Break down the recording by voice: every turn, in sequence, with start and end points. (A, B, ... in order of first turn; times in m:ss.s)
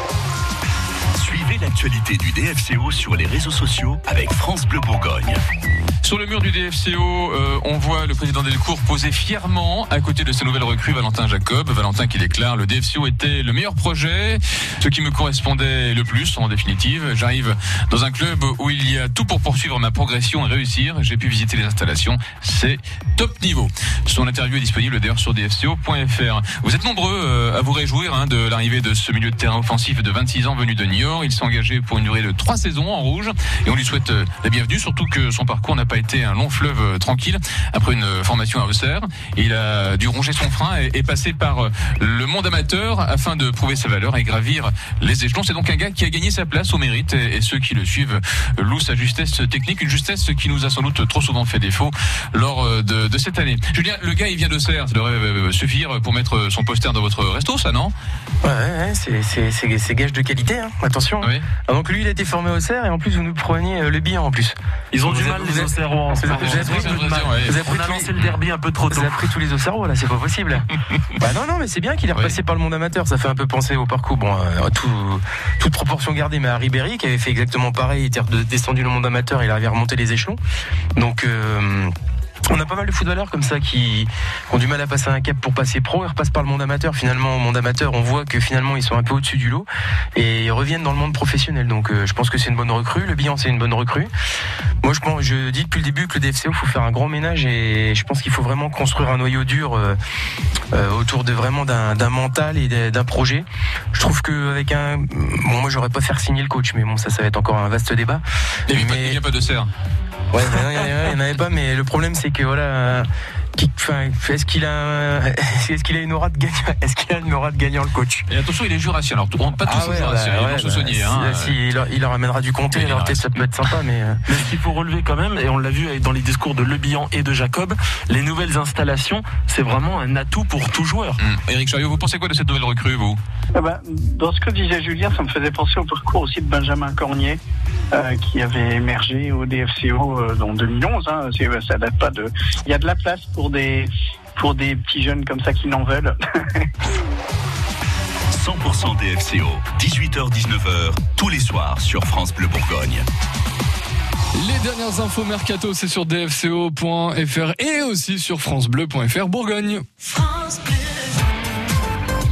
0:01.1-0:05.4 A
0:06.0-0:57.9 B
0:58.4-1:08.1 C
1:01.2-1:01.5 B
1:04.9-1:09.3 D
1:06.3-1:07.6 B
1:08.9-1:20.4 C
1:21.0-1:21.9 C
1:22.5-1:34.1 C
1:34.8-1:40.0 C
1:40.7-1:49.2 C
1:48.7-1:49.7 B
1:50.3-1:58.3 C
1:58.3-2:01.5 B
1:59.6-2:04.2 C
2:02.7-2:03.3 B
2:04.3-2:11.2 D
2:11.2-2:13.2 B
2:13.6-2:17.4 E
2:17.9-2:26.7 E
2:28.3-2:33.0 A
2:34.3-2:40.3 F